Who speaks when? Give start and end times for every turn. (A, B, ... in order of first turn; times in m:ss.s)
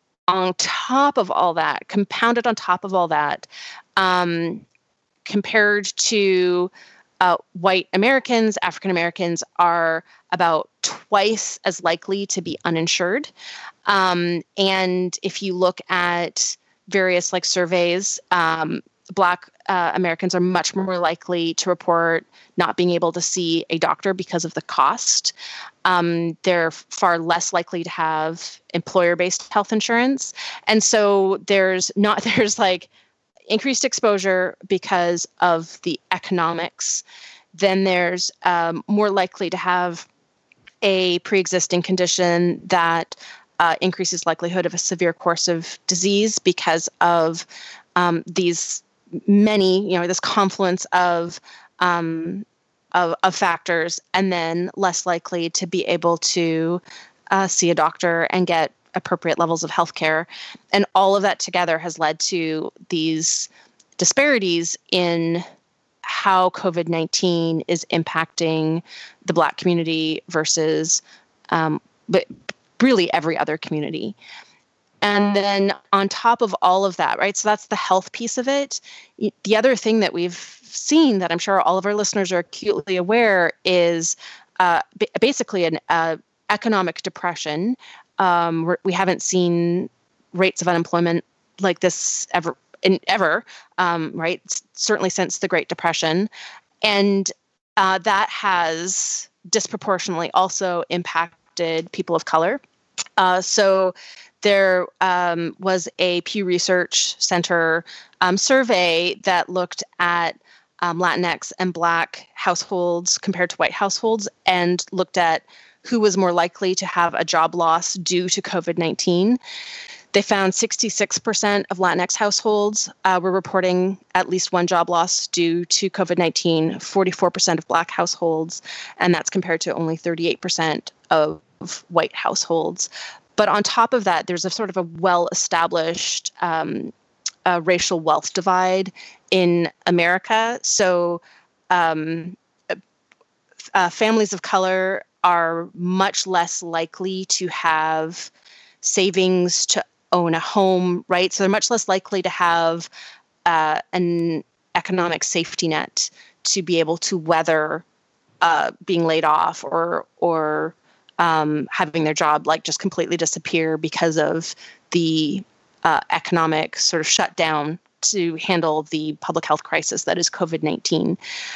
0:00.3-0:04.6 A
0:05.2-0:13.3 A
0:13.8-0:25.3 A
0:25.8-0:32.9 A
0:33.5-0:40.1 A
0:40.8-0:56.8 A
0:57.3-1:05.4 A
1:06.0-1:14.2 A
1:15.0-1:36.3 A
1:36.8-1:42.6 A
1:43.2-1:59.4 A
2:00.1-2:16.9 A
2:17.4-2:22.8 A
2:23.7-2:28.3 A
2:28.8-2:32.9 A
2:33.4-2:37.8 A
2:38.4-2:51.2 A